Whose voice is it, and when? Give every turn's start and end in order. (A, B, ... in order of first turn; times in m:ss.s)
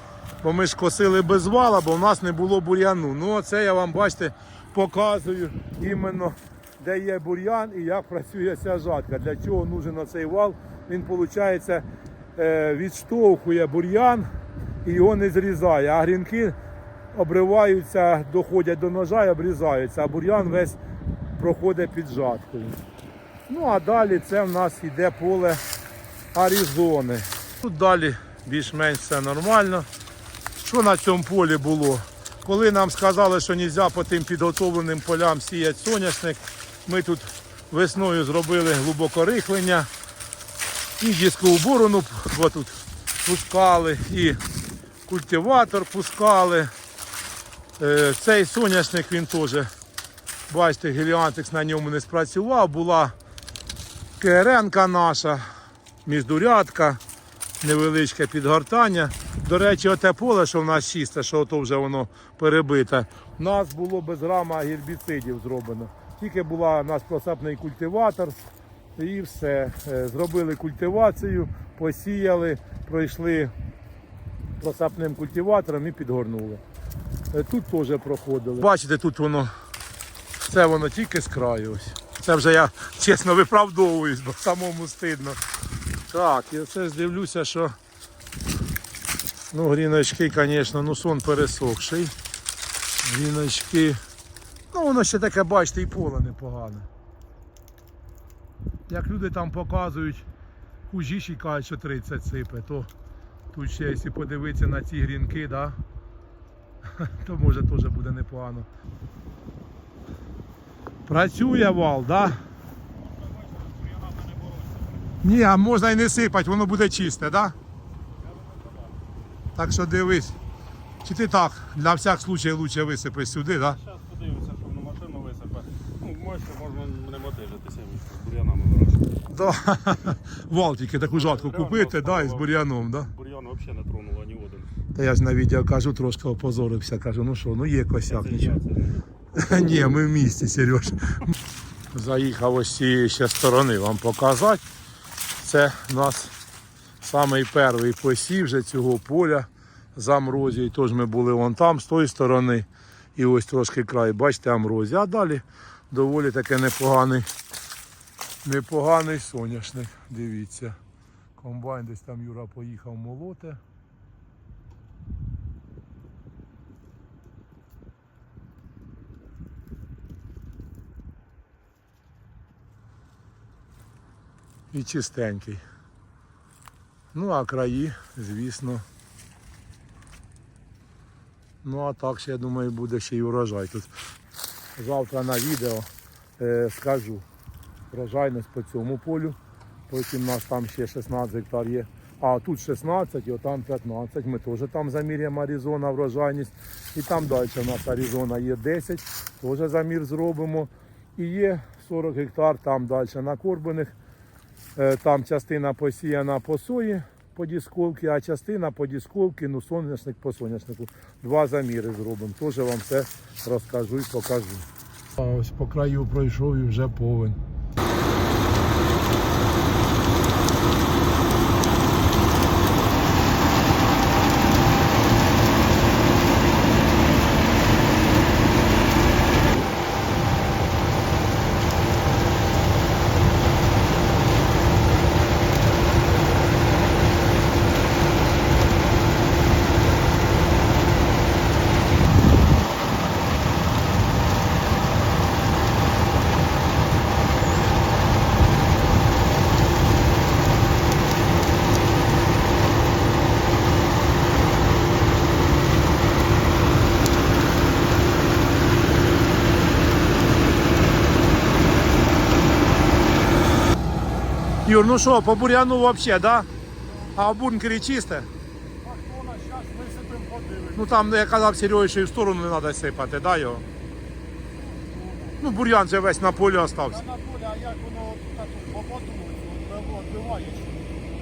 0:00.4-0:11.8 A
0:12.4-0:14.3 A
0:14.8-0:16.6 A
0:17.1-0:20.8 A
0:21.4-0:22.8 A
0:23.5-0:25.6 A
0:26.3-0:29.9 A
0:30.6-0:39.9 A
0:41.0-0:44.4 A
0:45.1-0:46.7 A
0:47.8-0:49.7 A
0:50.5-0:53.2 A
0:54.2-0:55.5 A
0:56.1-0:57.0 A
0:57.6-1:08.4 A
1:09.0-1:13.5 A
1:14.6-1:16.6 A
1:17.3-1:19.5 A
1:20.5-1:25.4 A
1:26.1-1:27.8 A
1:29.5-1:32.1 A
1:33.0-1:34.0 A
1:34.7-1:36.9 A
1:38.9-1:40.3 A
1:40.9-1:42.9 A
1:43.5-1:45.8 A
1:46.9-1:48.7 A
1:51.1-1:52.4 A
1:53.2-1:55.1 B
1:55.2-1:57.6 A
1:58.2-1:58.9 B
1:59.6-2:00.4 A
2:01.0-2:03.8 A
2:03.7-2:09.1 B
2:09.3-2:13.1 A
2:11.1-2:14.7 B
2:15.0-2:18.6 A
2:18.1-2:19.1 B
2:19.4-2:21.3 A
2:21.9-2:24.6 A
2:25.4-2:26.3 A
2:27.0-2:37.3 A
2:38.4-2:40.8 A
2:41.4-2:43.6 A
2:54.7-2:55.6 A
2:57.1-2:58.8 A
3:01.6-3:03.9 A
3:04.8-3:05.9 A
3:06.4-3:07.2 A
3:07.9-3:09.4 A
3:09.9-3:24.0 A
3:24.8-3:34.7 A
3:35.2-3:37.4 A
4:24.6-4:26.5 A
4:27.2-4:28.3 A
4:28.8-4:31.0 C
4:30.8-4:33.6 A
4:34.5-4:35.4 C
4:35.4-4:37.0 A
4:36.9-4:41.0 C